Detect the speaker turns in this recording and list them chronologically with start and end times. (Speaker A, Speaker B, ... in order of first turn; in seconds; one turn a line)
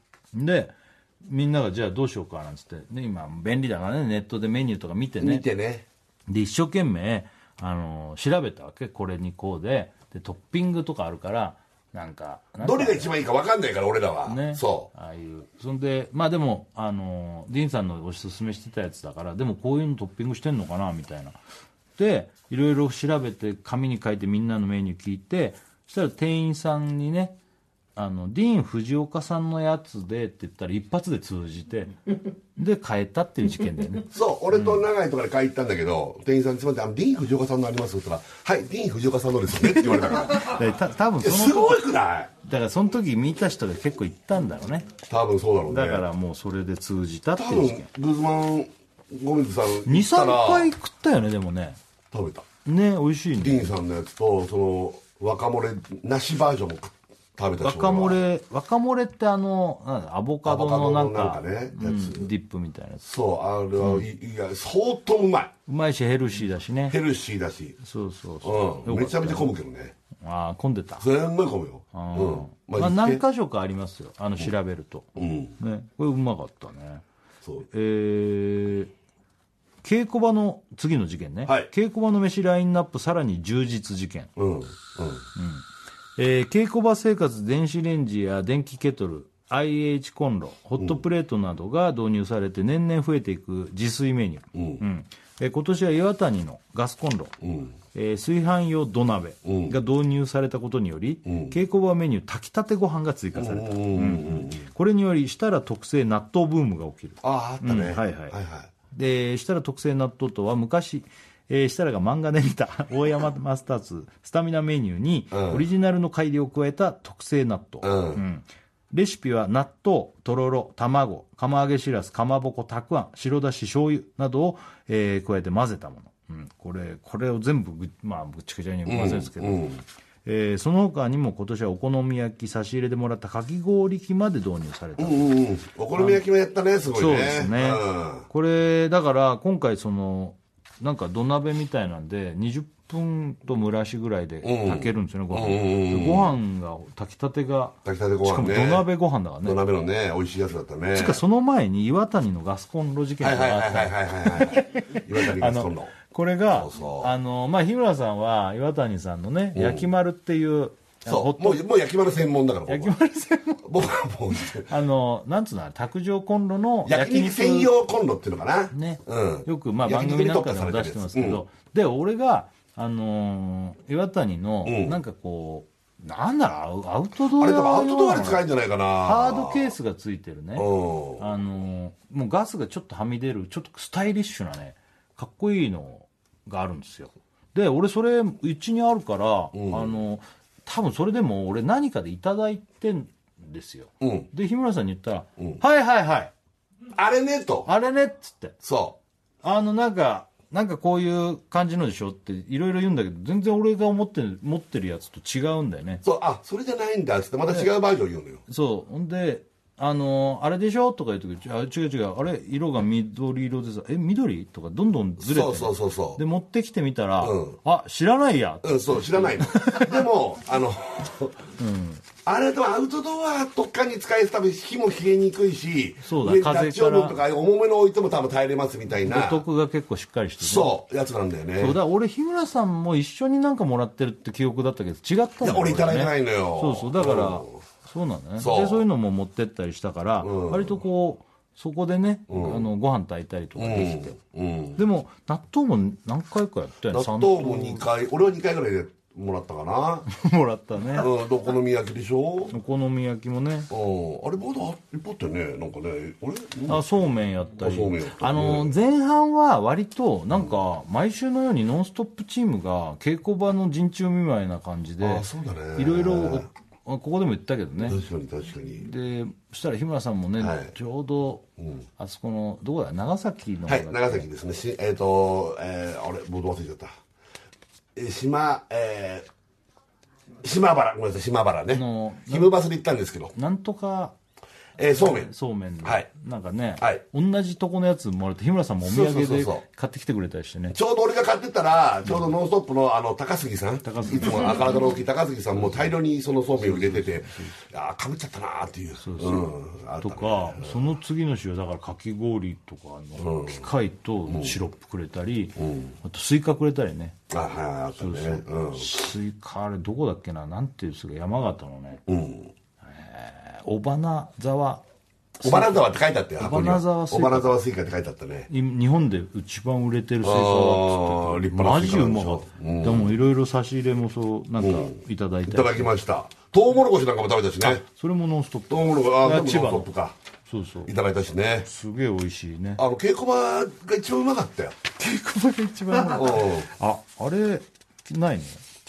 Speaker A: 0.3-0.7
Speaker A: 1.2-5.5
Speaker B: 5.2-5.8
Speaker A: 6.3-13.1
Speaker B: 12.6-14.9
Speaker A: 14.2-21.4
Speaker A: 22.0-27.4
Speaker A: 27.9-31.9
Speaker A: 32.5-34.8
Speaker B: 34.1-40.6
Speaker A: 40.1-41.8
Speaker B: 41.2-42.3
Speaker A: 42.4-44.9
Speaker B: 45.1-46.0
Speaker A: 45.7-47.9
Speaker B: 47.3-50.7
Speaker A: 49.8-51.8
Speaker B: 52.1-52.5
Speaker A: 52.6-53.7
Speaker B: 53.4-58.2
Speaker A: 57.6-63.0
Speaker B: 60.4-62.3
Speaker B: 63.0-65.5
Speaker A: 63.8-64.0
Speaker A: 65.7-67.0
Speaker B: 66.9-67.8
Speaker A: 67.8-69.5
Speaker B: 68.4-69.9
Speaker A: 70.2-71.0
Speaker B: 71.0-73.2
Speaker A: 71.9-77.0
Speaker B: 75.2-75.5
Speaker A: 77.6-78.9
Speaker A: 79.8-84.3
Speaker B: 84.4-85.2
Speaker A: 85.3-97.3
Speaker B: 94.5-94.8
Speaker B: 97.4-97.7
Speaker A: 97.9-108.3
Speaker B: 99.4-99.7
Speaker B: 101.2-101.6
Speaker B: 103.3-104.7
Speaker B: 107.2-108.7
Speaker A: 108.9-129.7
Speaker B: 115.3-115.7
Speaker B: 117.8-118.2
Speaker B: 128.8-129.8
Speaker A: 130.2-135.3
Speaker B: 135.0-138.3
Speaker A: 135.9-136.2
Speaker A: 136.9-149.6
Speaker B: 144.4-146.3
Speaker B: 147.8-148.8
Speaker B: 149.4-151.2
Speaker A: 150.9-161.6
Speaker B: 153.2-155.9
Speaker B: 156.5-157.1
Speaker B: 159.5-159.9
Speaker B: 161.0-162.9
Speaker A: 162.7-163.7
Speaker B: 163.6-164.7
Speaker A: 164.3-167.7
Speaker B: 166.8-171.4
Speaker A: 168.7-178.4
Speaker B: 174.6-175.0
Speaker B: 177.3-179.7
Speaker A: 179.0-196.3
Speaker B: 180.6-181.3
Speaker B: 189.5-189.9
Speaker B: 194.0-194.3
Speaker B: 196.9-197.7
Speaker A: 197.7-198.6
Speaker B: 198.6-199.0
Speaker A: 199.4-206.0
Speaker B: 206.0-208.4
Speaker A: 208.5-220.0
Speaker B: 215.2-216.2
Speaker B: 217.2-217.6
Speaker B: 218.6-221.5
Speaker A: 221.6-222.0
Speaker B: 222.2-229.4
Speaker A: 226.0-227.2
Speaker A: 229.0-230.8
Speaker B: 230.4-231.8
Speaker A: 231.6-244.2
Speaker B: 235.4-237.6
Speaker B: 238.4-238.8
Speaker B: 240.2-240.8
Speaker B: 242.3-242.7
Speaker B: 243.6-244.8
Speaker A: 244.8-247.8
Speaker B: 246.9-250.1
Speaker A: 250.1-251.1
Speaker B: 250.9-252.5
Speaker A: 252.5-253.7
Speaker B: 253.7-258.7
Speaker A: 256.7-268.0
Speaker B: 265.0-266.4
Speaker B: 267.8-268.9
Speaker A: 268.8-271.4
Speaker B: 270.4-270.7
Speaker A: 272.0-274.3
Speaker B: 273.7-276.9
Speaker B: 277.9-279.3
Speaker B: 280.4-283.3
Speaker A: 281.7-282.5
Speaker A: 283.3-284.1
Speaker B: 284.8-285.3
Speaker A: 284.9-290.8
Speaker B: 288.8-289.6
Speaker B: 290.7-300.9
Speaker A: 293.8-294.9
Speaker A: 295.6-295.9
Speaker A: 296.5-297.5
Speaker A: 299.0-307.2
Speaker B: 303.2-303.7
Speaker B: 304.3-304.6
Speaker B: 305.6-305.9
Speaker B: 307.3-309.0
Speaker A: 308.0-312.0
Speaker B: 312.1-312.5
Speaker A: 312.8-314.8
Speaker A: 315.4-317.6
Speaker B: 315.4-318.5
Speaker A: 318.5-325.9
Speaker B: 320.2-323.1
Speaker B: 324.6-327.8
Speaker A: 327.6-329.9
Speaker B: 328.7-330.1
Speaker A: 330.5-330.9
Speaker B: 330.9-331.7
Speaker A: 331.6-332.8
Speaker B: 332.8-334.8
Speaker A: 334.9-338.6
Speaker B: 336.1-336.7